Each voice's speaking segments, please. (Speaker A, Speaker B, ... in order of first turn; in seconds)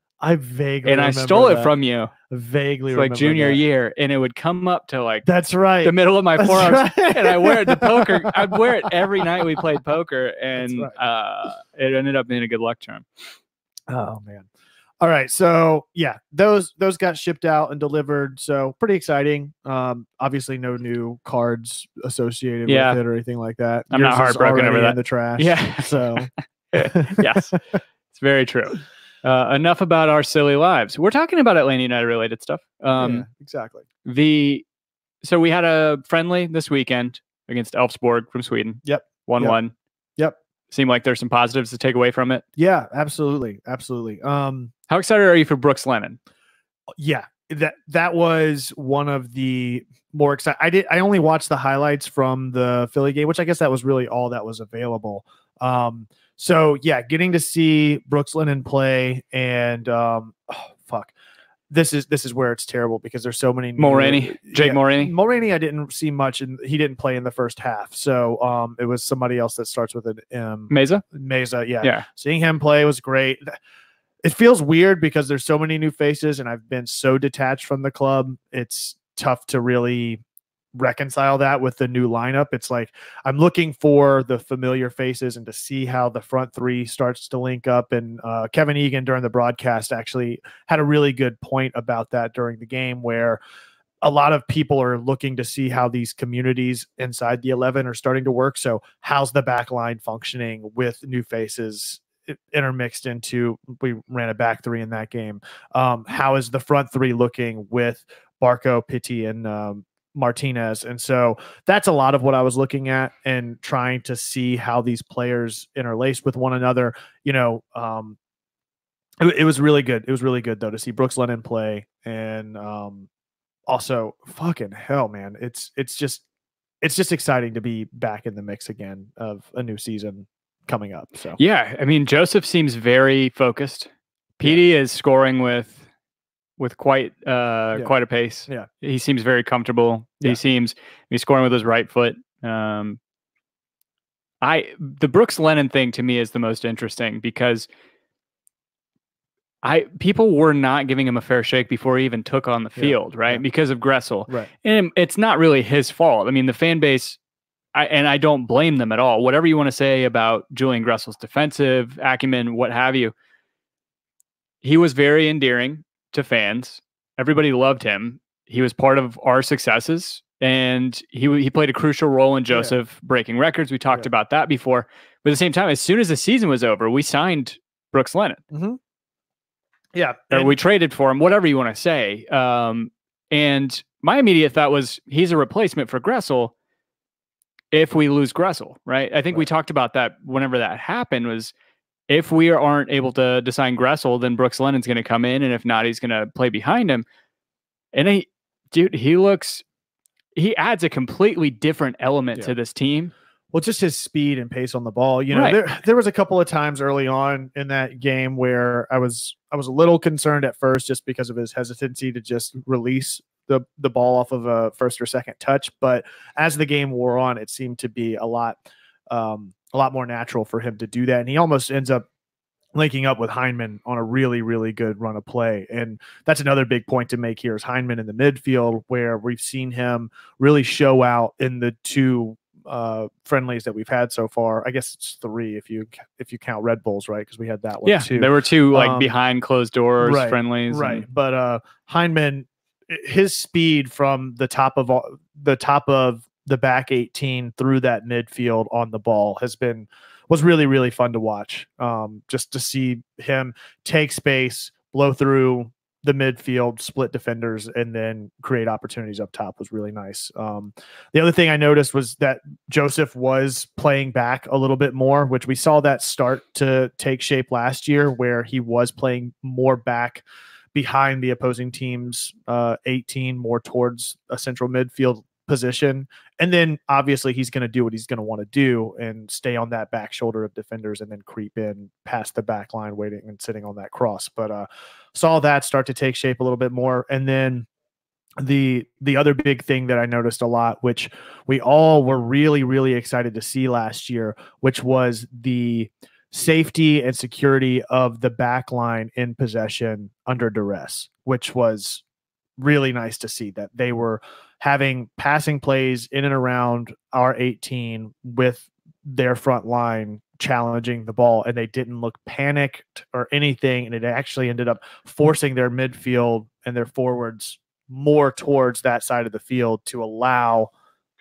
Speaker A: 0.2-1.7, 2.3-3.6, 5.2-9.6, 10.6-10.9, 13.9-14.5, 15.0-27.6, 33.0-33.9, 38.9-39.6, 42.6-44.7, 47.0-61.1, 61.7-73.5, 74.2-80.2, 80.8-93.4, 94.0-118.2, 119.2-123.1, 123.7-126.2, 126.8-131.4, 152.8-153.4, 178.5-178.8, 179.9-180.6, 203.5-222.1, 222.8-239.1, 240.0-287.7, 288.4-302.0, 302.6-320.7
Speaker B: 0.8-2.1, 2.9-5.3, 5.8-13.1, 22.7-23.0, 23.9-27.6, 28.1-33.3, 34.0-34.6, 35.2-39.7, 40.7-42.5, 44.9-46.2, 63.8-65.1, 70.7-71.0, 131.4-135.9, 136.6-143.0, 144.4-147.7, 149.6-157.2, 157.7-163.1, 164.6-178.4, 180.3-186.5, 187.7-191.5, 192.1-197.1, 197.9-199.6, 200.4-203.1, 205.3-205.6, 237.8-241.1